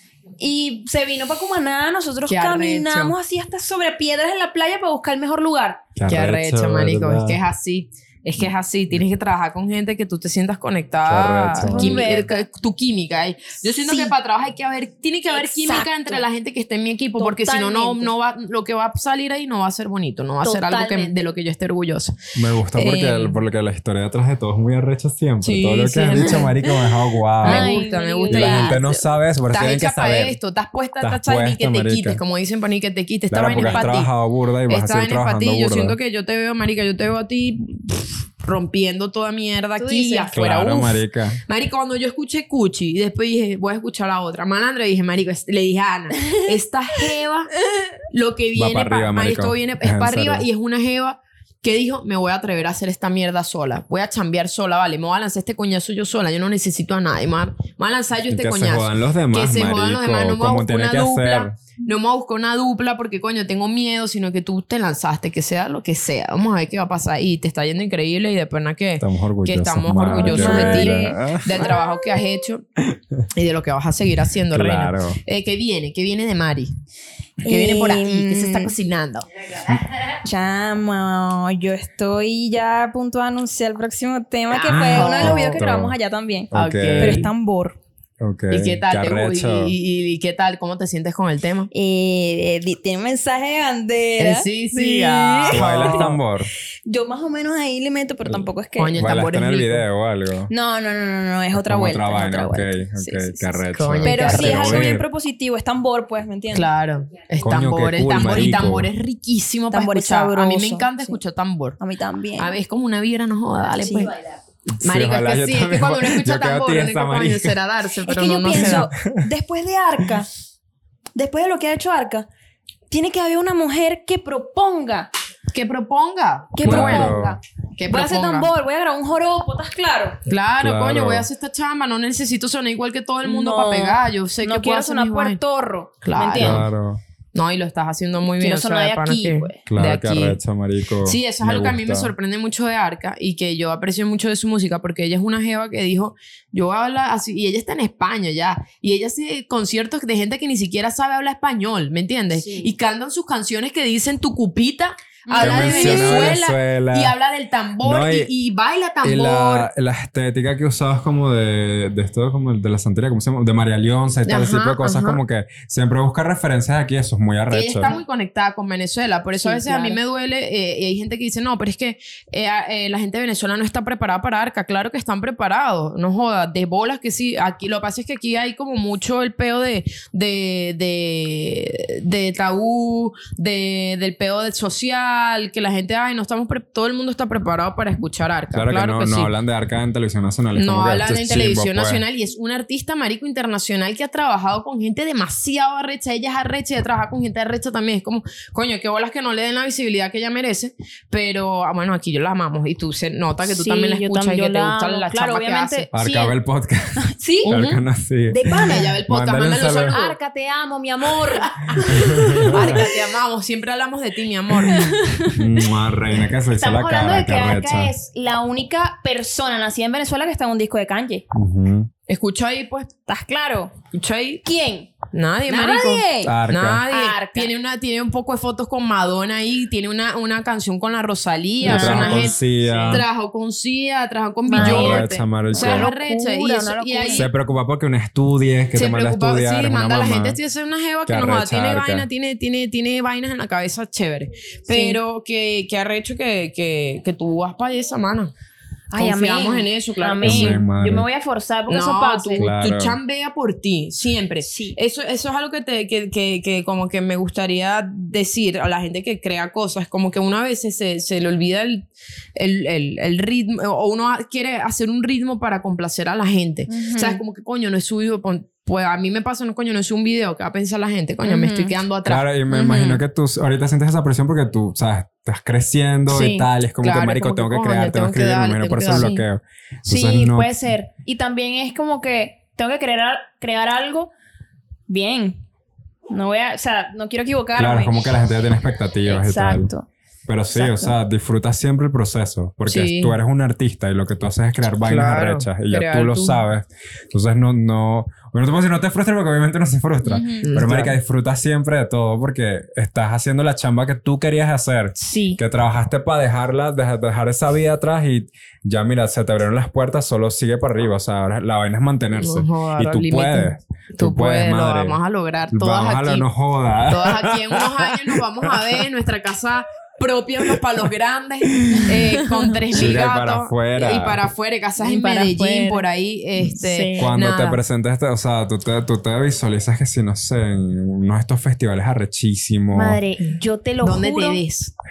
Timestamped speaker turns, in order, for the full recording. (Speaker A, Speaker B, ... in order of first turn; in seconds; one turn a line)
Speaker A: 0.4-5.8
Speaker B: 2.3-3.1
Speaker C: 6.0-7.4
Speaker B: 6.1-22.2
Speaker C: 11.1-12.1
Speaker A: 11.6-12.5
Speaker A: 13.8-14.1
Speaker A: 15.3-16.2
Speaker A: 17.2-18.1
Speaker A: 20.4-21.2
Speaker C: 22.3-30.4
Speaker B: 22.7-23.4
Speaker B: 25.4-26.6
Speaker B: 27.4-28.8
Speaker A: 27.4-29.0
Speaker B: 29.5-34.1
Speaker C: 31.0-32.2
Speaker C: 33.3-36.0
Speaker A: 33.6-33.9
Speaker B: 34.7-47.5
Speaker A: 39.8-40.3
Speaker C: 40.3-41.4
Speaker B: 48.1-72.6
Speaker C: 48.5-50.5
Speaker C: 58.3-61.6
Speaker C: 69.0-71.7
Speaker A: 70.2-71.7
Speaker C: 72.8-73.2
Speaker B: 73.3-76.7
Speaker C: 74.5-75.2
Speaker A: 77.4-78.7
Speaker B: 77.5-79.2
Speaker A: 79.9-87.8
Speaker B: 84.5-85.6
Speaker C: 84.6-85.9
Speaker C: 86.5-87.3
Speaker B: 86.5-87.3
Speaker C: 88.2-89.7
Speaker B: 88.5-91.7
Speaker A: 91.7-96.1
Speaker B: 94.2-96.2
Speaker C: 95.5-96.5
Speaker A: 96.8-99.0
Speaker C: 98.2-100.5
Speaker B: 98.8-99.9
Speaker A: 100.5-106.7
Speaker C: 101.5-105.0
Speaker B: 103.7-104.9
Speaker B: 106.5-111.8
Speaker C: 107.4-108.9
Speaker A: 109.7-111.2
Speaker A: 111.8-112.5
Speaker B: 112.4-114.1
Speaker A: 113.8-114.4
Speaker C: 114.7-117.6
Speaker B: 114.8-118.9
Speaker A: 118.0-120.3
Speaker C: 118.5-119.3
Speaker A: 121.1-122.3
Speaker A: 122.9-125.1
Speaker B: 125.5-127.2
Speaker A: 126.5-130.2
Speaker C: 126.6-127.4
Speaker B: 127.8-128.5
Speaker B: 130.3-135.4
Speaker C: 130.6-131.3
Speaker A: 133.2-136.6
Speaker B: 136.0-136.6
Speaker C: 136.4-137.0
Speaker B: 137.3-140.4
Speaker A: 138.4-139.6
Speaker C: 139.7-142.1
Speaker B: 141.0-159.7
Speaker A: 152.3-152.7
Speaker A: 155.2-156.4
Speaker C: 155.4-157.1
Speaker C: 157.8-158.3
Speaker C: 159.0-167.9
Speaker B: 164.2-165.2
Speaker B: 167.5-189.3
Speaker A: 169.4-170.0
Speaker C: 188.5-192.0
Speaker B: 190.6-205.9
Speaker A: 203.4-206.3
Speaker C: 205.9-210.0
Speaker A: 207.0-207.5
Speaker B: 207.4-207.8
Speaker A: 208.3-208.9
Speaker B: 208.5-210.1
Speaker A: 209.9-212.9
Speaker B: 211.2-214.9
Speaker C: 211.9-212.8
Speaker A: 214.6-215.4
Speaker C: 215.3-217.9
Speaker A: 216.5-221.2
Speaker C: 221.3-221.9
Speaker B: 222.1-222.9
Speaker A: 223.1-223.7
Speaker B: 223.9-224.4
Speaker A: 224.4-225.0
Speaker B: 225.1-237.3
Speaker A: 225.5-226.3
Speaker C: 226.2-226.8
Speaker A: 226.9-227.5
Speaker A: 231.6-233.0
Speaker C: 231.6-233.1
Speaker A: 234.5-237.2
Speaker C: 234.5-235.9
Speaker C: 237.1-240.4
Speaker B: 238.7-248.3
Speaker C: 241.1-242.1
Speaker A: 244.7-245.0
Speaker A: 248.9-252.4
Speaker B: 248.9-250.6
Speaker C: 250.2-251.1
Speaker B: 251.7-272.2
Speaker C: 252.4-253.0
Speaker A: 254.4-254.8
Speaker A: 266.7-267.2
Speaker A: 271.2-271.8
Speaker C: 272.0-280.5
Speaker A: 272.5-273.0
Speaker A: 276.1-276.4
Speaker B: 276.8-279.2
Speaker A: 279.8-284.1
Speaker A: 284.9-285.4
Speaker A: 286.1-288.0
Speaker C: 287.6-289.7
Speaker A: 289.0-289.9
Speaker C: 290.2-315.0
Speaker A: 290.5-290.9
Speaker B: 292.7-293.1
Speaker B: 294.8-296.4
Speaker A: 300.0-300.5
Speaker B: 300.4-301.0
Speaker A: 305.0-305.4
Speaker B: 312.1-316.3
Speaker C: 315.5-318.8
Speaker B: 316.9-327.6
Speaker C: 321.6-321.9
Speaker A: 322.2-322.6
Speaker C: 322.7-324.2
Speaker A: 324.8-325.8
Speaker A: 326.5-327.1
Speaker C: 327.0-333.0
Speaker A: 332.7-334.4
Speaker B: 333.8-334.7